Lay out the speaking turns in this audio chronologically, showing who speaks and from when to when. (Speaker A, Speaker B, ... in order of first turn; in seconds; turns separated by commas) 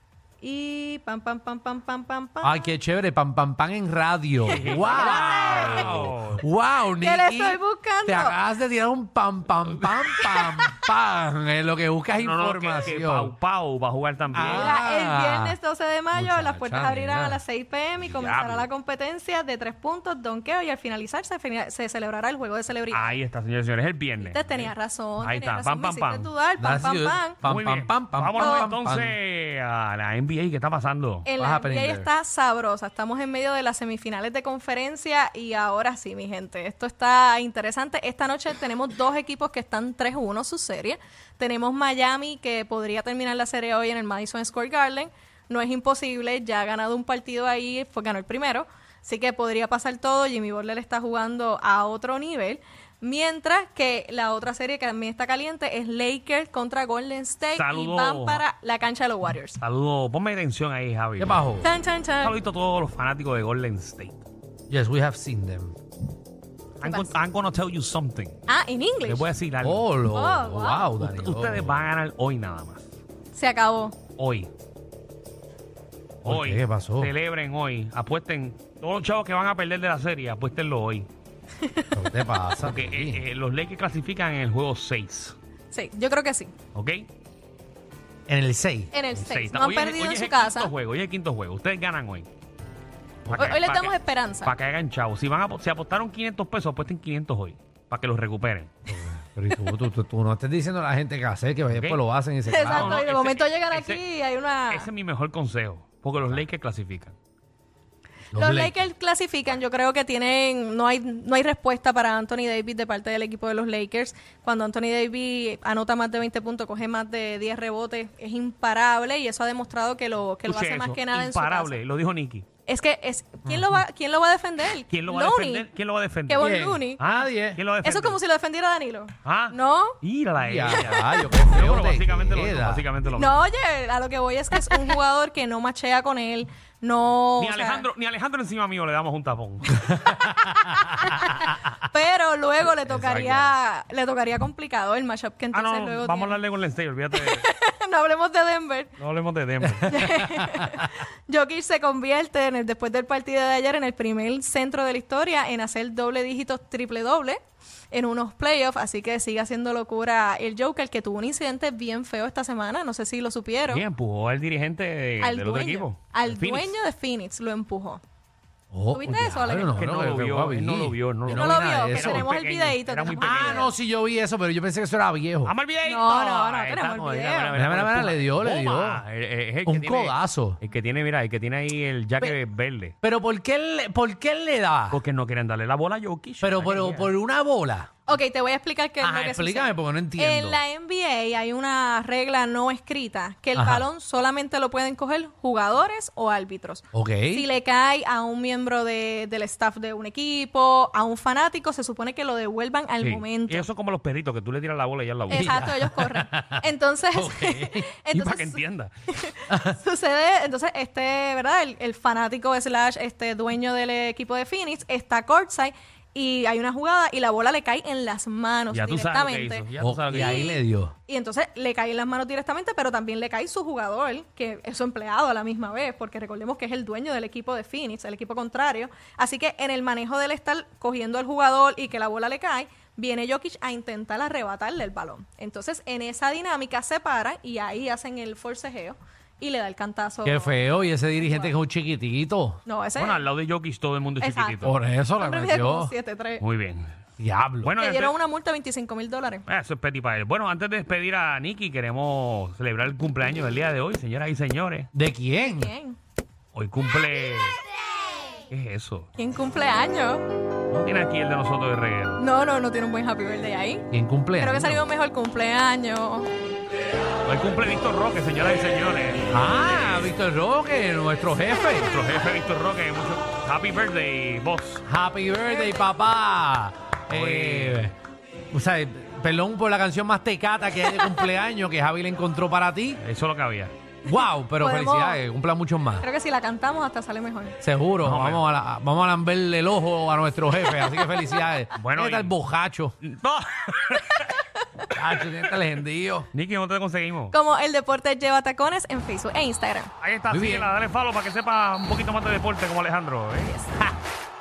Speaker A: 0.4-2.6, Speaker B: 2.4-13.3, Speaker A: 4.5-6.1, Speaker C: 4.5-6.5, Speaker A: 7.0-8.4, Speaker A: 10.1-10.8, Speaker C: 12.2-14.7, Speaker B: 14.3-15.6, Speaker A: 14.5-23.2, Speaker B: 16.1-17.4, Speaker C: 18.0-18.7, Speaker C: 22.9-26.3, Speaker A: 24.2-27.4, Speaker B: 26.6-29.1, Speaker C: 27.4-31.3, Speaker A: 28.3-28.7, Speaker A: 31.2-59.6, Speaker B: 31.4-32.1, Speaker C: 57.5-58.5, Speaker C: 59.6-61.4, Speaker B: 61.2-61.7, Speaker A: 61.6-62.4, Speaker C: 62.2-64.2, Speaker B: 64.7-65.7, Speaker C: 66.8-68.4, Speaker A: 66.9-67.1, Speaker A: 68.5-69.3, Speaker C: 69.0-69.9, Speaker B: 69.6-71.8, Speaker A: 70.1-70.9, Speaker C: 71.0-72.8, Speaker A: 73.3-74.0, Speaker C: 74.2-74.5, Speaker C: 76.2-81.1, Speaker B: 76.2-77.1, Speaker A: 81.6-82.0, Speaker B: 81.9-83.2, Speaker C: 82.6-85.4, Speaker A: 85.7-86.5, Speaker C: 86.7-87.1, Speaker B: 88.3-88.9, Speaker A: 88.9-90.7, Speaker C: 89.1-92.3, Speaker B: 93.2-93.6, Speaker C: 93.3-98.7, Speaker A: 93.4-94.5, Speaker B: 98.9-103.0, Speaker C: 101.7-102.0, Speaker A: 102.5-104.9, Speaker C: 102.6-104.0, Speaker C: 104.7-107.2, Speaker B: 108.3-108.9, Speaker A: 108.3-121.8, Speaker C: 120.5-122.5, Speaker A: 122.7-125.7, Speaker B: 123.5-123.8, Speaker C: 124.9-128.2, Speaker A: 126.3-127.0, Speaker B: 126.4-127.6, Speaker A: 127.8-130.0, Speaker C: 129.2-133.4, Speaker B: 130.4-132.9, Speaker A: 133.1-137.9, Speaker C: 137.4-139.8, Speaker B: 139.8-141.0, Speaker A: 140.9-146.4, Speaker C: 142.8-143.5, Speaker C: 145.5-147.5, Speaker A: 147.1-148.9, Speaker C: 149.0-150.1, Speaker B: 149.7-150.9, Speaker A: 149.8-157.4, Speaker A: 157.9-163.8, Speaker C: 163.7-166.7, Speaker A: 165.2-168.0, Speaker B: 168.7-172.3, Speaker A: 168.9-169.8, Speaker C: 169.8-173.7, Speaker A: 171.3-173.7, Speaker B: 173.2-175.5, Speaker C: 175.4-182.9, Speaker A: 175.8-177.6, Speaker B: 177.5-179.0, Speaker B: 179.7-180.6, Speaker B: 183.0-185.0, Speaker C: 184.9-187.1, Speaker B: 186.4-187.9, Speaker A: 188.1-203.7, Speaker B: 189.0-190.6, Speaker B: 193.6-193.9, Speaker B: 196.9-197.4, Speaker C: 203.0-205.7, Speaker A: 205.3-241.6, Speaker B: 205.3-207.9, Speaker C: 208.1-208.9, Speaker B: 209.5-209.8, Speaker C: 218.7-220.5, Speaker B: 219.8-220.9, Speaker B: 240.2-242.6, Speaker A: 242.7-243.2, Speaker C: 243.0-244.7, Speaker A: 244.2-246.4, Speaker B: 244.6-245.9, Speaker C: 246.4-246.9, Speaker B: 247.2-247.7, Speaker C: 247.6-248.1, Speaker A: 247.8-249.4, Speaker C: 249.5-254.9, Speaker B: 254.9-255.7, Speaker A: 255.6-256.0, Speaker C: 256.6-257.6, Speaker C: 258.5-259.1, Speaker A: 259.2-260.2, Speaker C: 260.7-262.2, Speaker A: 262.2-263.9, Speaker B: 263.9-264.9, Speaker A: 264.4-266.3, Speaker C: 267.2-269.3, Speaker B: 269.3-271.9, Speaker C: 271.8-274.8, Speaker B: 274.9-278.0, Speaker A: 275.4-276.0, Speaker C: 277.1-277.9, Speaker B: 278.5-283.0, Speaker C: 283.0-283.7, Speaker B: 284.0-286.1, Speaker A: 284.1-285.2, Speaker A: 286.0-287.6, Speaker B: 287.6-292.9, Speaker C: 288.0-288.4, Speaker A: 290.6-291.4, Speaker C: 291.8-292.4, Speaker C: 293.0-294.4, Speaker B: 294.9-296.3, Speaker C: 296.3-297.4, Speaker A: 297.3-299.9, Speaker C: 300.0-303.6, Speaker B: 300.3-300.7, Speaker A: 303.5-303.9